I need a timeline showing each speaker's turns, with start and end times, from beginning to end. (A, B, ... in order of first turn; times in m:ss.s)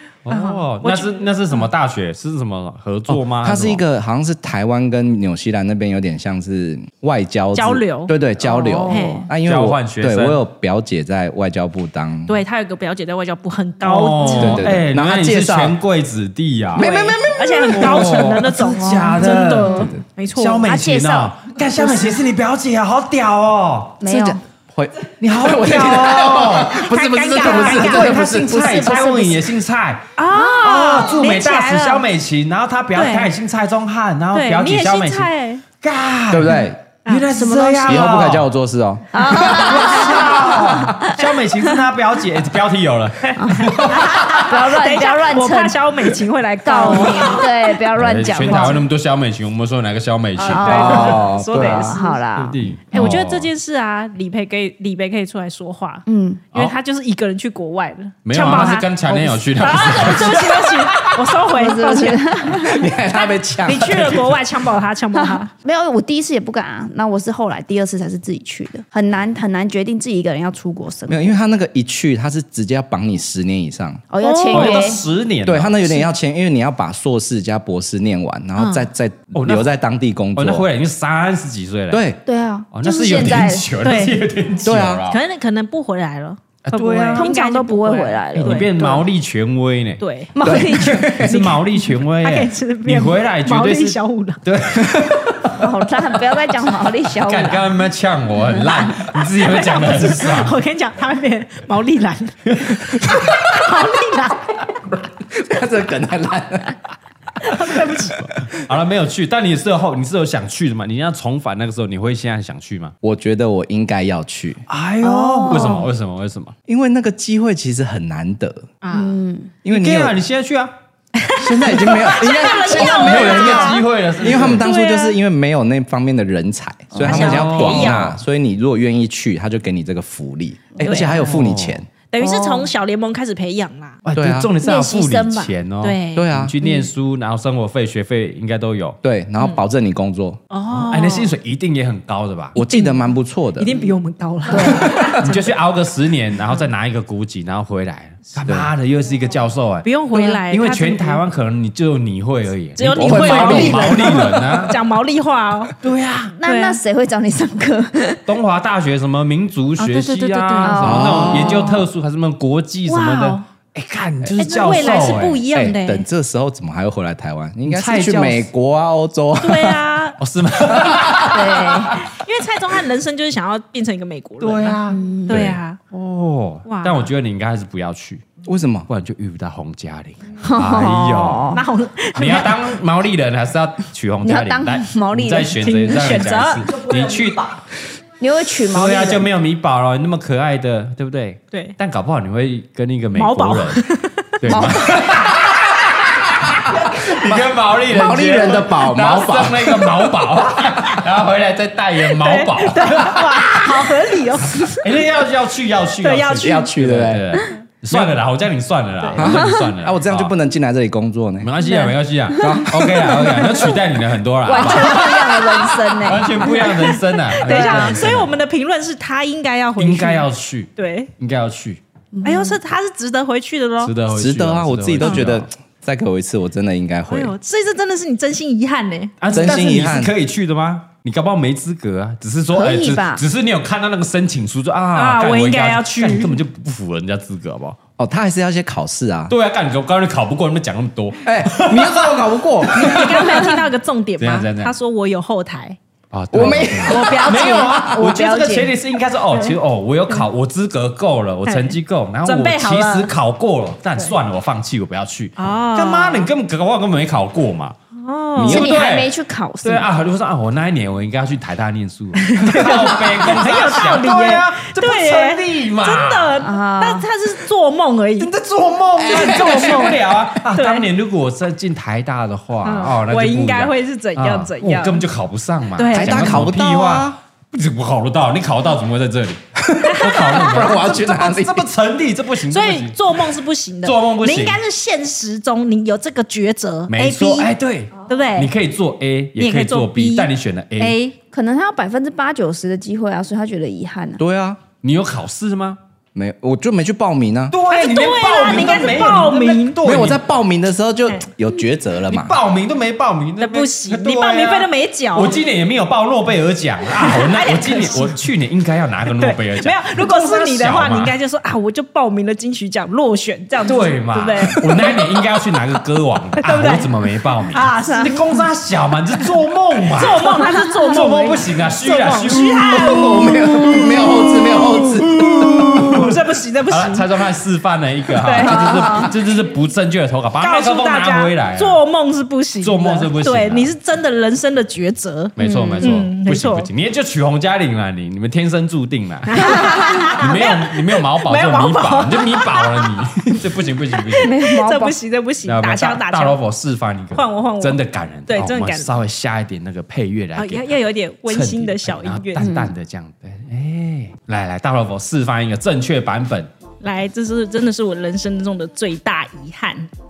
0:00.3-0:03.8 A
0:00.3-0:01.3 B
0:03.1-0:12.4 C
0:07.5-0:08.2 B
0:08.4-0:09.3 D
0:08.9-0:09.3 B
0:09.4-0:10.4 A
0:12.3-0:14.7 B
0:13.8-0:16.9 A
0:14.4-0:15.8 C
0:16.8-0:18.3 C
0:16.8-0:20.7 B
0:17.7-0:24.0 A
0:19.6-0:19.9 D
0:19.6-0:20.0 C
0:20.6-0:21.3 D
0:24.0-0:24.4 D
0:24.0-0:29.0 C
0:25.2-0:35.3 A
0:25.7-0:28.1 B
0:28.0-0:29.5 D
0:30.2-0:32.1 B
0:33.0-0:33.3 B
0:34.3-0:35.6 B
0:35.8-0:38.5 A
0:36.3-0:36.8 C
0:37.0-0:38.1 B
0:37.8-0:39.8 C
0:39.1-0:41.2 D
0:39.3-0:44.4 A
0:43.2-0:47.5 B
0:43.4-0:45.8 D
0:46.6-0:48.8 D
0:47.9-0:51.2 A
0:50.4-0:52.2 B
0:50.4-0:53.0 D
0:50.5-0:52.0 C
0:52.4-0:53.5 A
0:52.9-1:02.4 B
0:56.1-0:56.4 D
0:58.3-1:00.7 A
1:01.5-1:02.9 D
1:02.4-1:04.4 C
1:03.6-1:05.5 B
1:05.2-1:11.3 D
1:11.1-1:14.0 C
1:14.1-1:15.0 D
1:14.2-1:15.0 B
1:14.5-1:16.0 A
1:15.4-1:20.7 C
1:18.6-1:18.9 B
1:19.3-1:19.7 A
1:20.4-1:22.1 A
1:21.9-1:22.2 C
1:22.3-1:23.7 D
1:22.7-1:25.2 A
1:23.8-1:24.2 B
1:24.6-1:25.0 C
1:25.1-1:28.9 B
1:26.6-1:27.3 A
1:27.2-1:29.0 D
1:28.4-1:30.0 A
1:30.0-1:34.4 B
1:30.4-1:31.2 D
1:30.4-1:31.4 C
1:31.0-1:35.7 A
1:34.9-1:35.2 C
1:35.5-1:37.7 D
1:37.2-1:40.6 A
1:39.4-1:44.7 B
1:42.5-1:43.2 A
1:45.3-1:46.8 C
1:47.4-1:48.3 B
1:48.2-1:52.9 A
1:53.0-1:54.7 C
1:54.7-1:56.6 A
1:55.0-1:55.9 D
1:56.7-1:58.7 C
1:58.8-1:59.1 B
1:58.9-1:59.5 D
1:59.6-2:00.2 C
1:59.7-2:00.7 A
2:01.2-2:03.8 B
2:01.4-2:11.9 C
2:02.7-2:04.6 A
2:04.4-2:05.2 B
2:06.9-2:07.5 D
2:07.0-2:08.2 A
2:07.1-2:08.1 B
2:10.8-2:11.3 D
2:10.8-2:11.1 B
2:11.2-2:11.8 A
2:12.1-2:14.0 B
2:12.2-2:12.7 D
2:14.0-2:19.0 A
2:14.1-2:14.5 C
2:14.6-2:15.5 D
2:15.8-2:16.3 B
2:16.2-2:16.5 C
2:19.0-2:20.4 C
2:20.5-2:21.3 B
2:20.7-2:22.6 A
2:22.6-2:23.8 C
2:22.6-2:23.1 B
2:23.6-2:25.3 B
2:24.5-2:25.0 D
2:24.5-2:25.2 C
2:25.2-2:29.9 A
2:28.4-2:28.7 C
2:29.8-2:31.2 B
2:30.5-2:34.8 A
2:32.8-2:35.7 B
2:32.9-2:34.7 C
2:35.8-2:36.4 A
2:36.4-2:38.2 D
2:36.4-2:36.8 B
2:38.3-2:45.4 A
2:39.8-2:40.8 B
2:40.6-2:41.8 D
2:40.8-2:41.7 C
2:42.9-2:43.4 B
2:44.4-2:46.0 B
2:45.5-2:49.8 C
2:47.7-2:48.5 A
2:49.4-2:50.2 B
2:50.2-2:52.0 A
2:50.8-2:51.2 C
2:51.2-2:52.0 D
2:52.0-2:55.8 B
2:54.4-2:58.3 A
2:54.9-2:55.4 D
2:56.7-2:57.1 B
2:58.4-2:58.9 C
2:58.9-3:01.6 A
3:00.4-3:01.6 D
3:01.5-3:02.7 B
3:02.2-3:07.6 A
3:04.2-3:06.0 D
3:05.7-3:06.8 B
3:08.2-3:09.3 D
3:08.6-3:13.8 A
3:13.1-3:14.4 B
3:14.4-3:23.9 A
3:14.5-3:15.2 D
3:16.7-3:20.3 C
3:22.2-3:24.8 B
3:24.8-3:30.4 A
3:26.0-3:26.7 B
3:26.4-3:28.2 C
3:29.2-3:31.5 C
3:29.3-3:29.6 D
3:31.4-3:38.3 A
3:31.6-3:33.7 D
3:32.4-3:33.7 C
3:34.4-3:38.1 D
3:36.4-3:41.1 B
3:39.8-3:41.8 A
3:42.1-3:42.6 D
3:42.2-3:43.9 B
3:43.8-3:45.5 A
3:44.1-3:47.4 C
3:47.1-3:49.2 B
3:49.2-3:57.8 A
3:49.3-3:50.1 C
3:52.5-3:53.2 D
3:55.0-3:56.4 B
3:58.0-3:59.3 C
3:59.3-4:03.5 A
4:01.2-4:03.3 C
4:02.8-4:05.8 B
4:04.2-4:04.7 A
4:06.1-4:17.8 A
4:06.3-4:07.4 C
4:06.8-4:08.7 B
4:07.4-4:08.3 D
4:09.3-4:09.6 B
4:11.4-4:13.1 B
4:15.4-4:16.3 B
4:18.0-4:18.7 B
4:18.4-4:26.4 A
4:18.4-4:19.9 D
4:22.2-4:28.3 B
4:26.4-4:27.1 D
4:28.2-4:39.4 A
4:29.0-4:29.8 C
4:29.1-4:30.8 B
4:32.6-4:35.0 B
4:35.8-4:36.4 B
4:35.9-4:37.2 C
4:39.6-4:41.7 C
4:39.8-4:40.4 B
4:40.0-4:43.0 A
4:42.5-4:47.5 B
4:43.8-4:44.6 A
4:46.9-4:51.0 A
4:48.1-4:48.5 B
4:49.4-4:51.2 B
4:51.3-4:54.2 D
4:54.2-4:54.6 C
4:54.8-4:55.8 A
4:56.2-4:57.6 C
4:57.5-5:00.2 A
4:57.7-4:59.8 B
4:59.8-5:02.4 C
5:02.1-5:11.2 A
5:03.4-5:05.4 B
5:07.0-5:08.2 B
5:09.2-5:15.2 B
5:13.6-5:26.2 A
5:16.4-5:16.9 B
5:17.5-5:18.2 B
5:17.9-5:18.2 D
5:19.9-5:23.8 B
5:22.6-5:26.0 C
5:25.9-5:27.1 B
5:26.7-5:31.8 A
5:28.2-5:29.1 B
5:28.5-5:29.1 D
5:30.4-5:36.7 B
5:32.6-5:33.7 A
5:35.4-5:44.3 A
5:35.4-5:35.9 D
5:39.3-5:43.0 B
5:44.1-5:46.4 B
5:44.2-5:45.0 D
5:45.5-5:56.5 A
5:47.1-5:48.9 B
5:50.4-5:52.5 B
5:52.4-5:52.7 D
5:56.8-5:59.9 B